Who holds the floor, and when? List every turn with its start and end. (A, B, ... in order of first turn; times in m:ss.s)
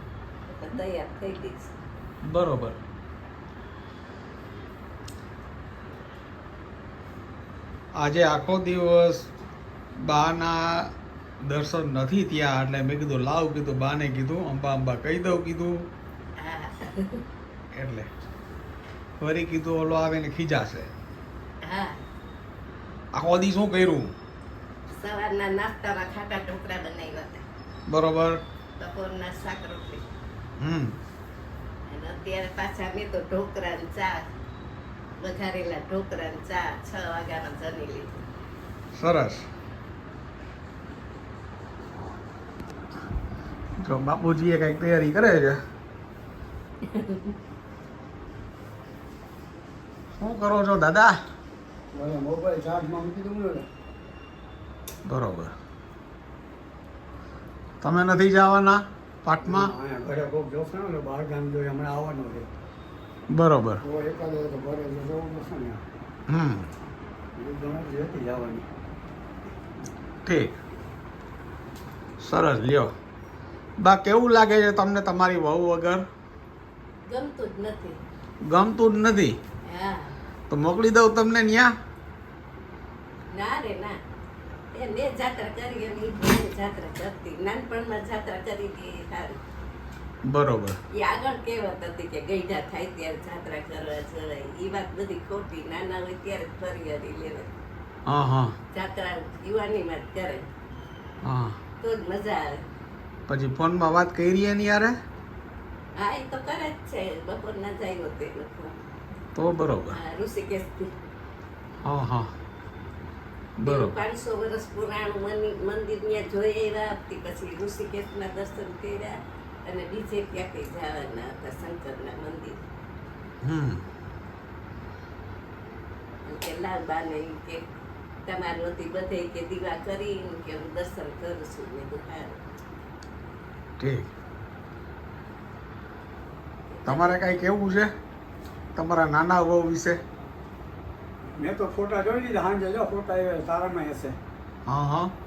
0:00.5-0:01.7 A
0:02.2-0:02.8 B
0:08.0-0:09.3 B
0:10.0-0:15.9 B
0:16.4-0:17.2 A
0:17.7-0:18.1 B
0:19.2-0:20.9 B
0:21.6-0:22.0 A
0:23.1-0:24.1 B
0:25.0-0:27.4 A
0:27.9-0:28.4 B
0:28.8-0:30.1 A
0:30.6-0:31.0 B
0:31.9-0:34.2 A
0:35.2-0:38.2 A
0:38.9-0:39.5 B
0:43.8-0:45.6 B
0:46.9-0:47.3 A
0:50.2-0:51.2 B
0:51.9-0:53.7 C
0:55.0-0:55.5 B
0:57.8-0:59.7 B
0:59.4-1:02.5 C
1:03.3-1:03.8 B
1:03.8-1:05.8 C
1:06.3-1:06.7 B
1:07.4-1:08.7 C
1:10.2-1:10.6 B
1:12.2-1:12.9 B
1:13.8-1:16.0 B
1:17.1-1:18.0 A
1:18.5-1:19.4 B
1:19.7-1:20.2 A
1:20.5-1:21.7 B
1:23.3-1:24.0 A
1:24.8-1:29.4 A
1:30.2-1:30.8 B
1:31.0-1:37.5 A
1:38.1-1:38.5 B
1:38.7-1:40.5 A
1:41.2-1:41.6 B
1:41.8-1:42.6 A
1:43.3-1:45.0 B
1:46.0-1:48.8 A
1:49.4-1:50.0 B
1:49.9-1:50.9 A
1:51.8-1:52.3 B
1:53.6-1:54.0 B
1:53.6-1:59.1 A
1:59.7-2:02.6 A
2:03.4-2:03.8 B
2:06.3-2:07.6 A
2:08.3-2:12.4 A
2:13.8-2:14.1 B
2:16.7-2:17.2 A
2:16.9-2:17.9 B
2:18.8-2:20.0 B
2:21.4-2:24.2 C
2:24.7-2:25.1 B